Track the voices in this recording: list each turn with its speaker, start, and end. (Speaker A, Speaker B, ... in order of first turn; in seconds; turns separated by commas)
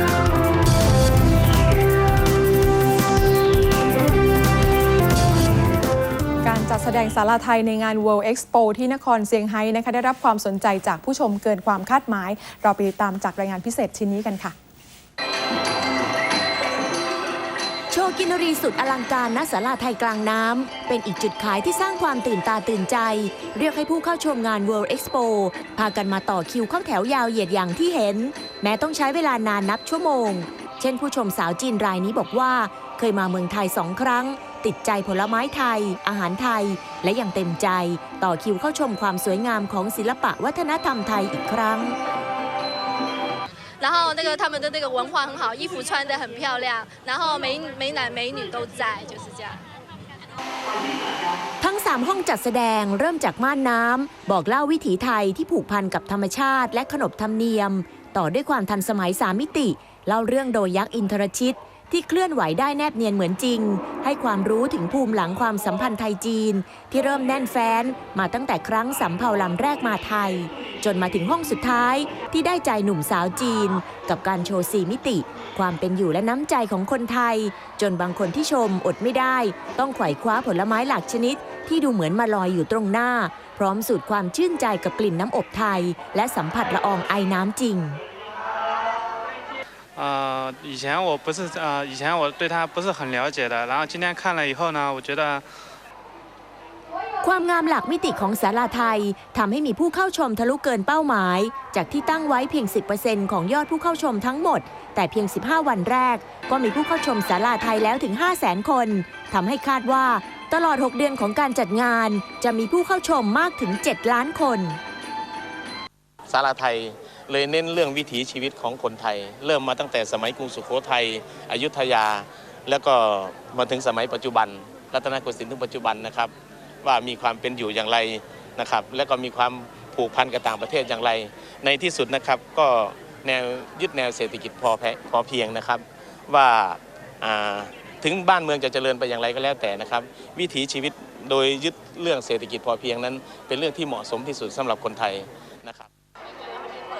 Speaker A: 6.4-14.5, Speaker B: 17.9-42.0, Speaker C: 43.8-49.6, Speaker B: 51.6-88.0, Speaker D: 89.9-95.5, Speaker B: 97.2-114.8, Speaker E: 116.3-145.9